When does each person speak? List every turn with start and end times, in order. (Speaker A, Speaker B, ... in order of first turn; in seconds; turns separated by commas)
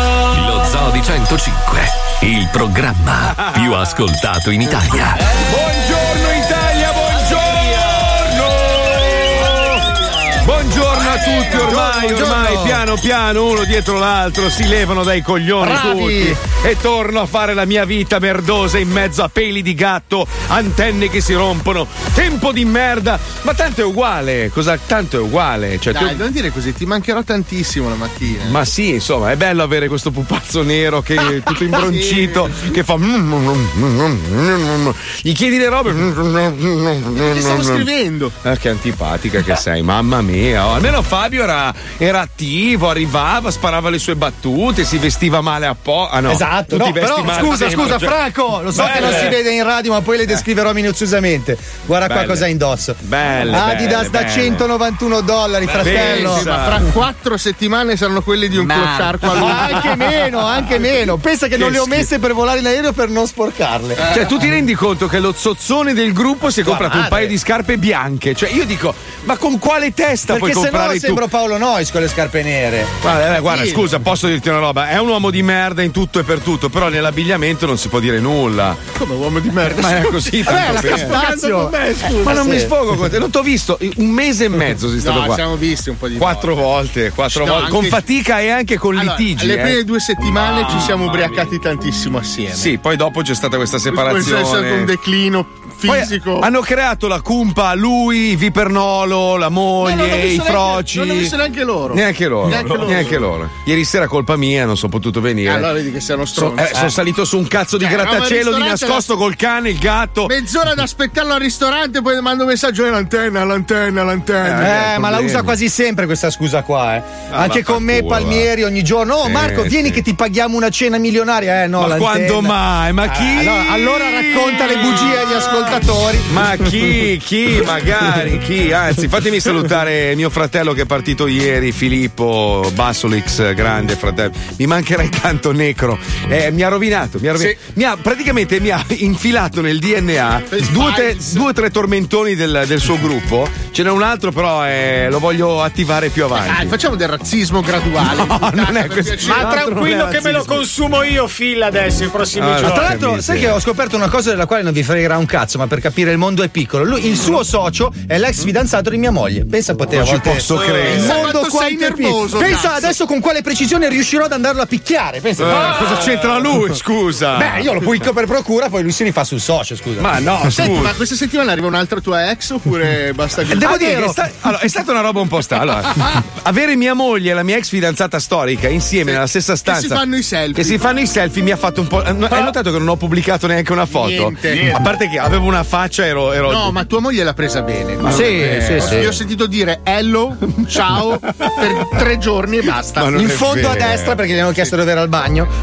Speaker A: 0.1-5.2, Speaker B: 5.5-9.9, Speaker B: 10.4-26.2, Speaker C: 11.5-12.8, Speaker C: 15.6-16.4, Speaker D: 25.9-28.6, Speaker B: 28.4-37.8, Speaker D: 31.8-32.5, Speaker D: 37.1-38.3, Speaker B: 38.4-48.2, Speaker C: 46.2-56.5, Speaker B: 48.7-49.4, Speaker B: 52.0-52.5, Speaker B: 53.0-54.7, Speaker B: 55.8-56.9, Speaker D: 55.8-59.9, Speaker C: 58.6-64.1, Speaker B: 61.5-62.1, Speaker B: 64.1-71.2, Speaker C: 66.6-67.3, Speaker C: 70.3-72.9, Speaker B: 73.0-78.9, Speaker D: 73.4-73.9, Speaker D: 78.9-82.6, Speaker B: 79.6-81.3, Speaker C: 80.5-82.7, Speaker B: 82.2-85.4, Speaker D: 85.0-86.5, Speaker B: 86.2-89.8, Speaker D: 87.3-88.0, Speaker D: 88.9-92.7, Speaker B: 90.3-91.4, Speaker B: 92.5-94.9, Speaker D: 93.9-96.5, Speaker B: 95.8-101.3, Speaker D: 99.8-103.2, Speaker B: 101.9-105.7, Speaker D: 105.4-106.9, Speaker B: 106.3-110.3, Speaker D: 107.8-109.1, Speaker D: 110.2-114.7, Speaker B: 114.4-115.6, Speaker C: 114.5-126.4, Speaker B: 117.3-118.5, Speaker B: 119.2-120.0, Speaker B: 121.8-146.8, Speaker D: 140.5-141.4, Speaker D: 146.3-149.5, Speaker B: 148.0-150.6, Speaker E: 149.3-152.9, Speaker B: 152.4-153.6, Speaker C: 152.6-166.2, Speaker B: 159.9-161.3, Speaker D: 160.8-162.9, Speaker B: 165.4-167.8, Speaker C: 167.3-170.1, Speaker B: 170.0-170.9, Speaker D: 170.5-173.9, Speaker C: 173.5-174.2, Speaker B: 173.5-180.0, Speaker D: 179.0-180.8, Speaker B: 180.5-186.7, Speaker D: 183.9-184.8, Speaker D: 186.5-193.3, Speaker B: 188.0-189.1, Speaker C: 188.1-189.2, Speaker B: 193.0-194.2, Speaker C: 193.1-195.5